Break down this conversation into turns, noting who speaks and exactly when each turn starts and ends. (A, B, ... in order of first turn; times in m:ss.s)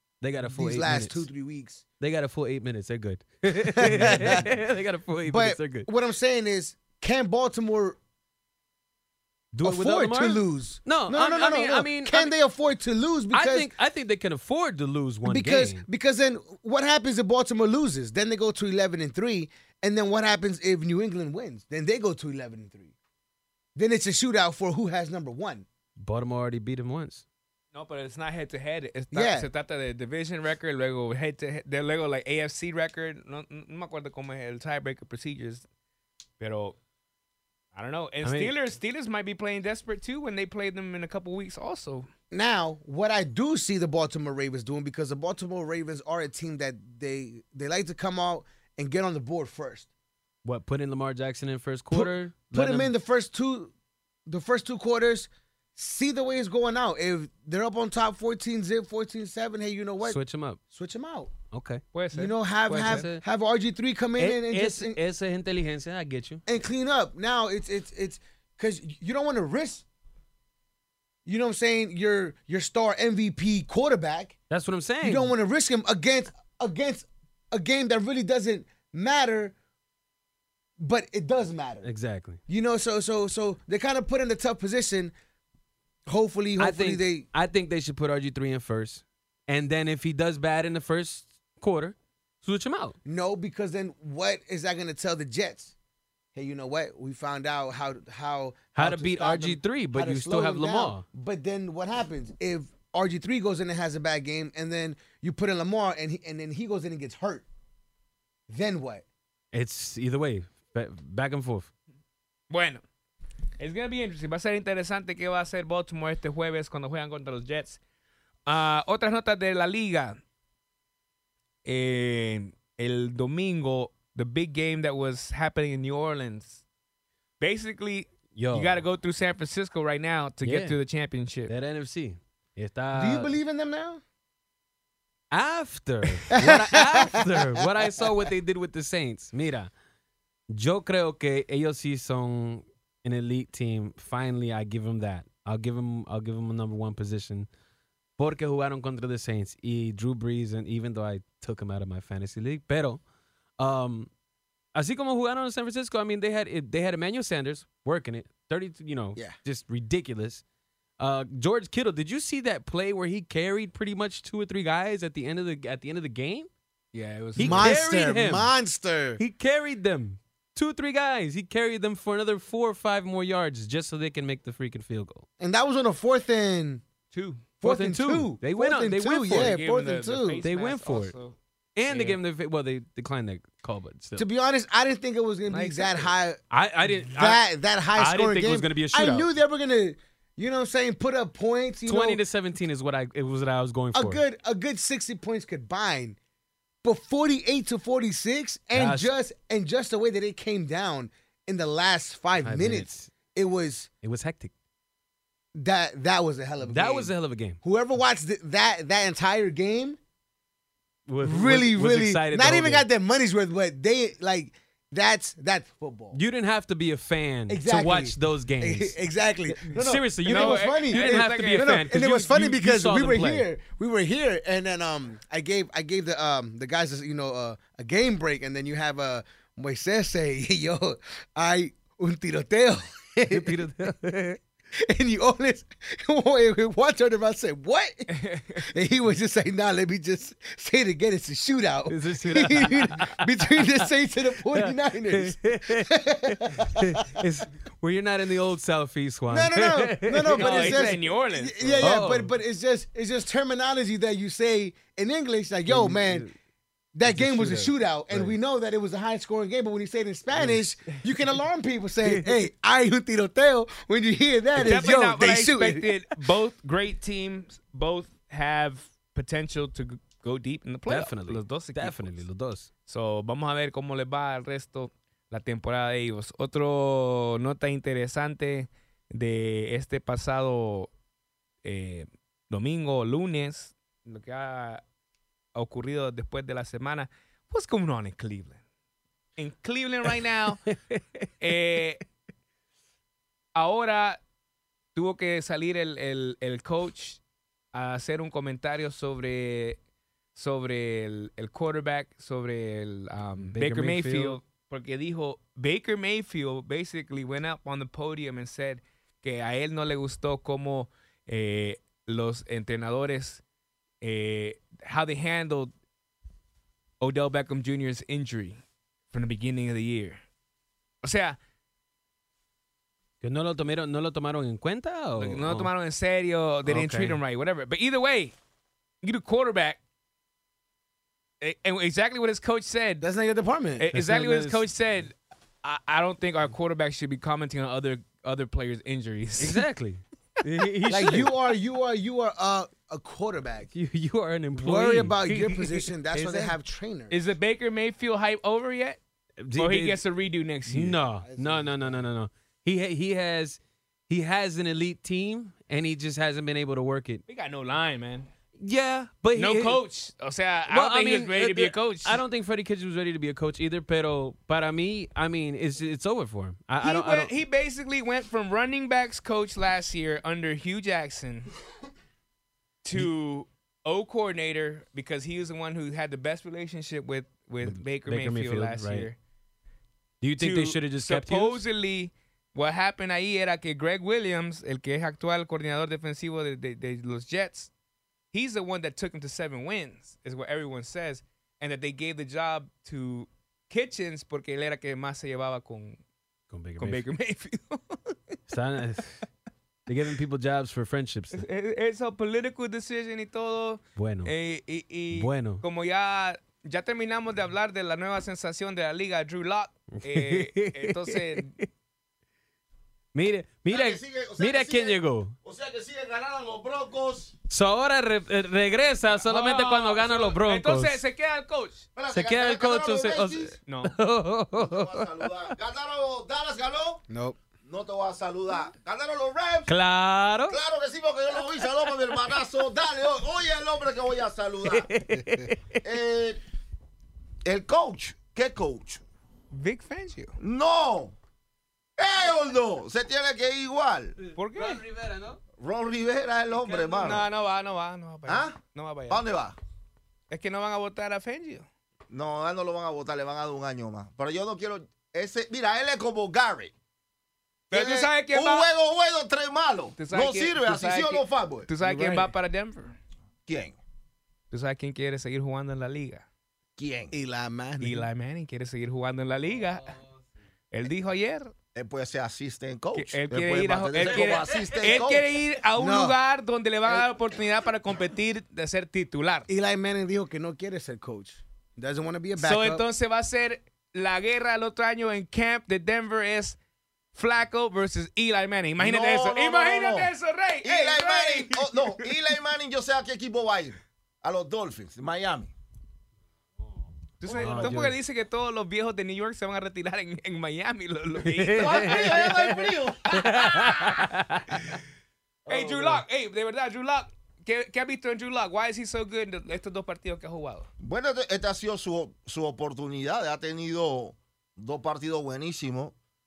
0:00.2-0:01.3 A
0:00.4-0:01.8 B
0:02.0-0:05.9 A
0:03.8-0:04.5 B
0:05.2-0:08.0 B
0:09.5-0:12.3 A
0:09.6-0:13.7 B
0:13.3-0:15.8 A
0:15.2-0:22.9 B
0:23.8-0:25.6 B
0:26.0-0:27.2 A
0:27.7-0:35.6 C
0:29.1-0:29.5 B
0:36.4-0:36.8 C
0:37.7-0:42.1 C
0:38.2-0:38.6 A
0:42.3-0:49.9 B
0:50.4-0:52.9 A
0:51.9-0:53.7 B
0:54.2-1:00.2 B
1:00.0-1:00.6 A
1:00.7-1:01.3 B
1:01.5-1:01.8 A
1:01.9-1:03.1 C
1:02.1-1:05.0 B
1:02.7-1:03.2 A
1:04.2-1:06.4 A
1:06.4-1:09.8 B
1:11.2-1:14.4 B
1:14.5-1:15.3 A
1:15.0-1:19.5 B
1:20.8-1:21.9 B
1:21.8-1:22.4 A
1:22.5-1:25.1 B
1:26.1-1:27.2 B
1:26.6-1:33.0 A
1:33.0-1:35.7 B
1:36.3-1:47.4 B
1:38.7-1:41.0 A
1:48.5-1:49.0 B
1:49.5-1:51.7 A
1:52.5-1:52.8 C
1:53.6-1:57.8 C
1:58.5-2:00.2 C
2:01.6-2:06.6 C
2:07.4-2:11.5 C
2:08.3-2:08.8 A
2:10.4-2:10.8 A
2:11.5-2:13.4 A
2:12.9-2:14.0 B
2:15.3-2:19.7 A
2:16.3-2:17.6 B
2:20.5-2:27.5 A
2:28.2-2:33.0 A
2:33.6-2:34.1 A
2:34.7-2:40.4 A
2:41.0-2:46.5 A
2:46.9-2:47.8 C
2:47.4-2:48.5 A
2:47.4-2:49.2 B
2:49.2-2:55.2 A
2:55.4-2:56.8 B
2:57.1-2:57.4 C
2:57.6-3:00.4 B
2:57.6-2:59.6 A
2:59.3-3:02.2 C
3:00.4-3:01.1 A
3:01.8-3:04.2 A
3:04.2-3:06.4 B
3:05.5-3:06.1 C
3:06.5-3:07.4 A
3:07.1-3:12.2 B
3:08.0-3:09.3 A
3:11.8-3:14.2 A
3:13.9-3:16.2 B
3:16.8-3:23.9 B
3:18.7-3:19.1 A
3:22.4-3:23.1 A
3:24.0-3:24.5 A
3:25.5-3:30.0 B
3:26.6-3:27.6 A
3:31.1-3:32.9 A
3:31.2-3:36.2 B
3:36.1-3:39.0 A
3:37.5-3:53.6 B
3:39.5-3:43.5 A
3:40.3-3:41.8 C
3:53.3-3:54.4 A
3:54.7-4:07.2 B
3:58.1-3:58.6 C
4:01.9-4:03.9 A
4:04.5-4:11.0 A
4:09.3-4:16.2 B
4:10.3-4:12.0 C
4:11.8-4:12.3 A
4:15.7-4:16.3 A
4:16.9-4:25.9 B
4:17.0-4:18.4 A
4:20.3-4:20.6 A
4:22.0-4:22.3 A
4:24.6-4:32.2 C
4:30.9-4:32.7 A
4:32.9-4:40.9 C
4:41.6-4:44.8 C
4:45.5-4:48.6 C
4:49.4-4:50.7 C
4:50.7-4:51.3 A
4:51.4-4:52.0 C
4:53.5-4:54.2 C
4:54.9-4:57.2 C
4:57.7-4:59.8 C
5:00.3-5:13.4 C
5:03.5-5:04.4 A
5:14.0-5:15.7 C
5:17.0-5:20.2 C
5:21.0-5:21.4 C
5:23.2-5:25.7 A
5:25.2-5:28.3 C
5:26.6-5:27.2 A
5:29.0-5:29.8 C
5:31.4-5:33.0 C
5:33.0-5:33.8 B
5:33.8-5:39.6 C
5:33.9-5:34.6 A
5:39.4-5:41.3 A
5:40.9-5:43.7 B
5:43.7-5:45.2 A
5:44.6-5:47.2 B
5:45.3-5:46.6 C
5:47.1-5:49.0 C
5:49.4-5:50.0 A
5:49.5-5:51.0 C
5:50.7-5:57.2 A
5:51.2-5:52.0 B
5:57.3-5:58.3 C
5:58.6-5:59.8 A
5:59.3-6:02.2 C
6:00.7-6:07.3 A
6:06.8-6:11.5 C
6:12.8-6:19.2 C
6:17.6-6:19.1 A
6:20.2-6:21.6 A
6:20.4-6:27.7 C
6:28.3-6:36.0 C
6:36.5-6:37.0 A
6:36.8-6:38.4 C
6:38.5-6:39.2 A
6:39.9-6:41.4 A
6:41.3-6:51.5 C
6:44.0-6:44.3 A
6:45.1-6:45.6 A
6:49.9-6:51.7 A
6:53.1-6:55.3 A
6:53.7-6:57.3 D
6:57.5-7:01.0 A
6:59.1-7:01.8 C
7:02.0-7:03.6 D
7:02.1-7:05.3 A
7:03.6-7:03.9 C
7:04.6-7:07.0 D
7:07.1-7:07.4 B
7:07.6-7:09.7 D
7:09.7-7:10.6 A
7:10.5-7:16.4 D
7:14.6-7:15.8 A
7:17.4-7:19.0 D
7:19.5-7:20.4 C
7:20.4-7:21.2 D
7:22.0-7:24.2 D
7:24.2-7:25.4 A
7:24.3-7:24.8 C
7:25.6-7:27.3 D
7:26.6-7:29.2 C
7:28.3-7:28.6 D
7:29.1-7:29.6 D
7:30.3-7:31.6 C
7:32.1-7:36.7 D
7:37.7-7:38.7 C
7:37.7-7:42.3 D
7:40.0-7:43.0 C
7:43.5-7:43.8 D
7:44.5-7:46.2 C
7:46.8-7:47.1 D
7:47.1-7:48.1 B
7:47.8-7:49.9 C
7:50.7-7:51.5 C
7:51.7-7:55.2 D
7:52.9-7:59.5 C
7:54.1-7:54.8 A
7:55.8-7:56.2 B
7:59.5-8:02.8 B
8:02.4-8:06.6 C
8:07.1-8:12.1 C
8:08.8-8:10.1 D
8:10.6-8:15.5 D
8:17.2-8:22.3 C
8:17.3-8:17.8 D
8:17.3-8:18.0 A
8:21.2-8:24.8 A
8:21.6-8:23.6 D
8:23.1-8:24.1 C
8:25.5-8:30.7 C
8:25.5-8:26.0 D
8:30.8-8:35.9 D